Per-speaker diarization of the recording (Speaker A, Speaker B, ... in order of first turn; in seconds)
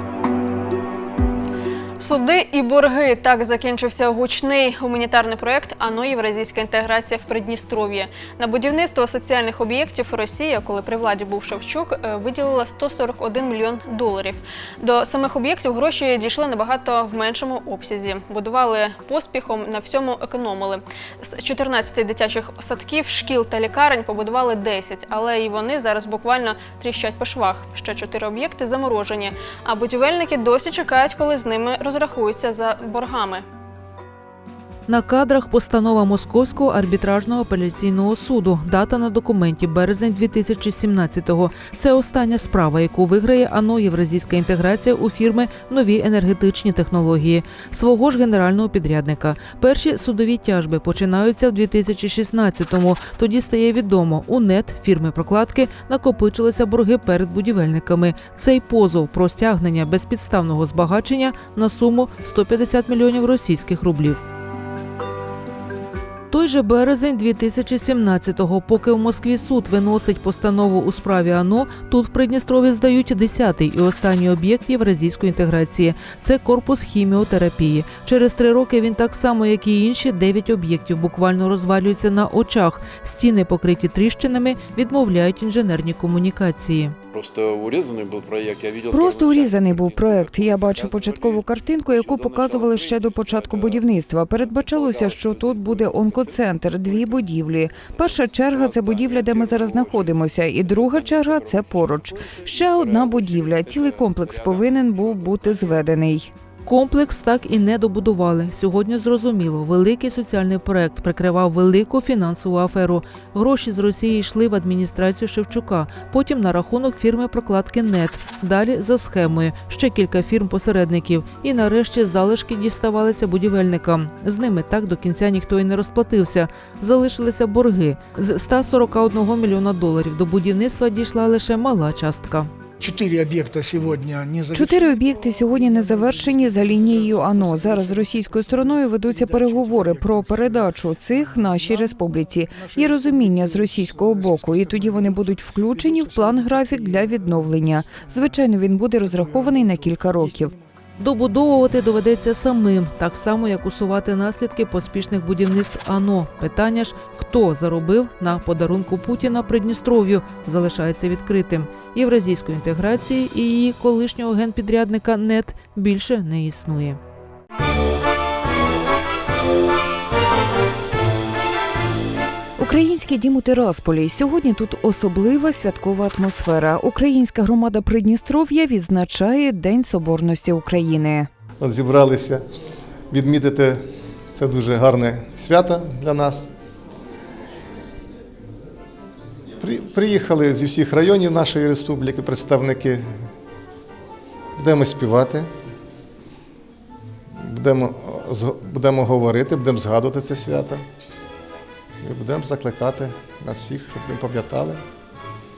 Speaker A: 2.0-33.4
Speaker B: 34.9-64.2, 66.3-87.0, 106.7-132.5, 151.0-167.0
Speaker C: 87.2-91.2, 92.3-93.7, 94.7-96.0, 98.2-99.9, 100.8-103.7
Speaker D: 88.9-106.3, 134.5-150.5, 172.6-181.3
Speaker E: 132.8-135.1, 136.8-137.9, 139.1-140.6, 141.6-141.9, 142.6-145.2
Speaker F: 181.6-182.4, 183.1-186.5, 189.6-193.1, 194.6-195.5, 197.4-200.8, 202.0-204.8